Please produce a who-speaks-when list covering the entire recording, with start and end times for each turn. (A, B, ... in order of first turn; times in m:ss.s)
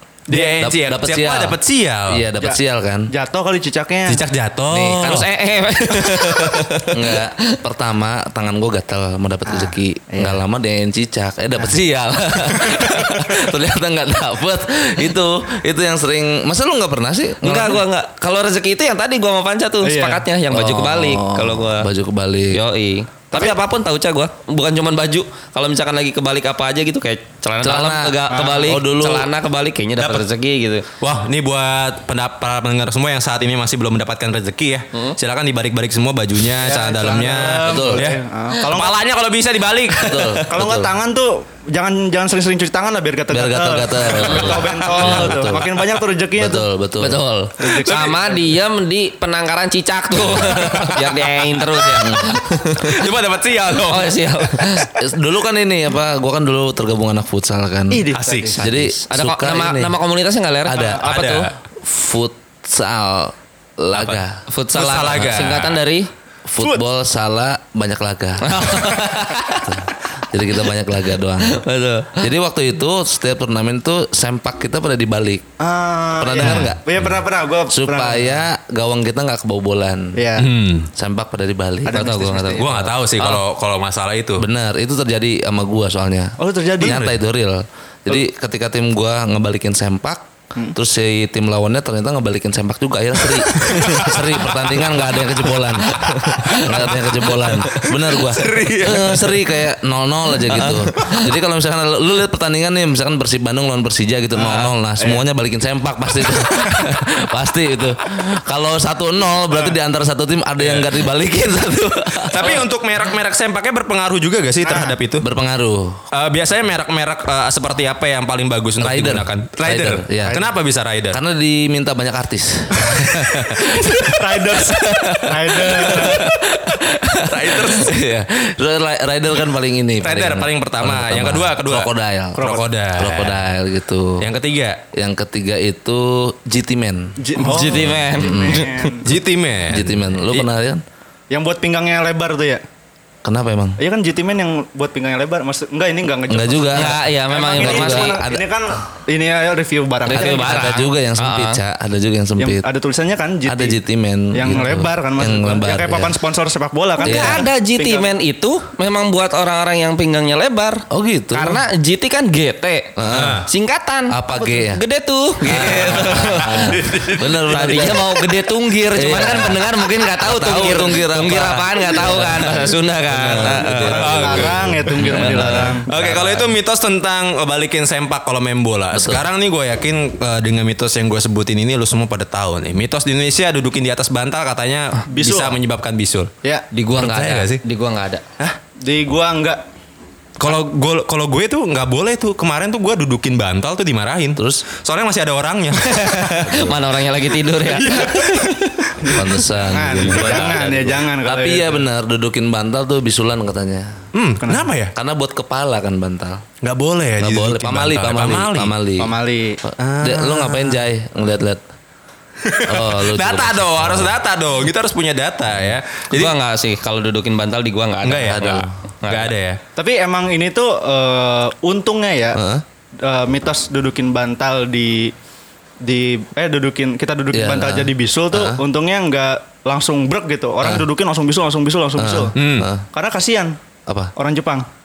0:00.3-0:00.7 A
0:00.3-0:02.2 B
0:00.6-0:01.6 C
0:02.1-0:03.1 C
0:02.4-0:04.2 A
0:04.1-0:05.3 B
0:04.7-0:05.3 C
0:05.0-0:07.4 D
0:05.9-0:06.6 B
0:06.9-0:17.8 C
0:09.4-0:10.4 A
0:17.4-0:21.9 D
0:19.8-0:20.2 A
0:20.5-0:22.6 C
0:22.5-0:30.9 D
0:27.6-0:29.3 C
0:28.3-0:28.8 A
0:30.0-0:30.2 B
0:31.0-0:40.5 B
0:36.6-0:39.0 A
0:37.6-0:38.1 C
0:40.0-0:40.9 C
0:40.5-0:46.7 A
0:43.3-0:45.7 C
0:44.3-0:45.5 B
0:46.4-0:47.2 C
0:47.0-0:53.1 D
0:47.6-0:48.5 A
0:47.8-0:48.2 B
0:50.2-0:52.1 B
0:50.2-0:50.7 C
0:52.0-0:52.4 C
0:52.8-0:54.7 B
0:53.9-0:54.9 D
0:55.0-0:58.0 C
0:57.9-0:58.6 A
0:58.1-0:58.6 B
0:58.6-1:01.5 D
0:58.6-0:59.9 C
1:00.7-1:01.0 C
1:00.9-1:01.5 B
1:01.8-1:04.4 C
1:04.1-1:06.1 D
1:04.7-1:05.8 B
1:06.5-1:09.0 C
1:08.4-1:09.7 D
1:09.6-1:11.6 C
1:11.4-1:12.3 D
1:12.2-1:15.5 C
1:15.6-1:18.4 A
1:16.2-1:17.2 C
1:17.7-1:20.2 C
1:20.1-1:20.5 A
1:20.4-1:20.9 B
1:20.9-1:22.1 C
1:21.8-1:22.7 A
1:21.9-1:23.4 D
1:22.5-1:24.4 B
1:24.4-1:52.6 C
1:26.4-1:27.1 A
1:26.8-1:27.1 B
1:33.6-1:34.3 B
1:35.8-1:37.8 D
1:37.8-1:39.4 B
1:40.5-1:41.2 D
1:44.5-1:45.2 A
1:50.6-1:50.9 B
1:52.3-1:55.2 B
1:54.6-1:54.9 A
1:55.2-1:56.0 C
1:56.1-2:01.2 B
1:58.8-2:00.4 C
2:01.1-2:03.1 C
2:02.9-2:06.3 B
2:03.6-2:06.3 A
2:07.0-2:08.0 B
2:07.1-2:14.2 C
2:10.0-2:13.4 B
2:12.4-2:12.7 A
2:14.2-2:14.8 B
2:14.9-2:18.6 C
2:17.2-2:19.1 A
2:17.4-2:18.9 D
2:19.0-2:20.5 B
2:19.7-2:20.8 C
2:21.3-2:22.6 A
2:23.2-2:23.8 C
2:23.8-2:30.7 A
2:26.3-2:27.0 C
2:26.7-2:28.2 D
2:27.5-2:28.4 C
2:30.0-2:32.6 C
2:30.1-2:31.6 D
2:32.4-2:33.8 A
2:33.4-2:36.1 C
2:34.3-2:38.1 A
2:37.0-2:46.8 D
2:37.0-2:37.4 C
2:40.9-2:41.6 C
2:43.0-2:43.4 C
2:43.1-2:43.5 B
2:44.1-2:44.8 C
2:45.4-2:48.1 C
2:45.5-2:47.4 B
2:47.5-2:54.2 D
2:48.9-2:56.6 C
2:53.8-2:55.9 A
2:53.9-3:06.3 B
2:58.9-2:59.2 C
3:05.1-3:05.6 A
3:06.7-3:08.2 D
3:06.9-3:07.6 B
3:08.8-3:09.6 A
3:10.4-3:16.6 B
3:14.4-3:14.6 C
3:15.8-3:19.1 D
3:16.4-3:16.8 C
3:17.8-3:18.5 B
3:19.0-3:21.9 A
3:19.1-3:24.0 C
3:24.1-3:24.9 B
3:24.4-3:24.7 A
3:24.9-3:26.4 C
3:26.6-3:28.7 B
3:27.2-3:29.1 C
3:29.0-3:29.6 A
3:29.6-3:31.6 C
3:29.8-3:30.8 B
3:32.4-3:36.3 B
3:32.6-3:34.1 C
3:36.1-3:39.3 D
3:38.0-3:39.6 B
3:38.3-3:38.7 C
3:39.8-3:42.4 A
3:42.3-3:42.6 C
3:43.0-3:45.1 A
3:45.8-3:52.3 A
3:47.3-3:48.6 C
3:52.0-3:52.8 C
3:52.3-3:52.7 B
3:52.9-3:53.6 A
3:53.9-3:54.1 C
3:54.2-3:54.7 A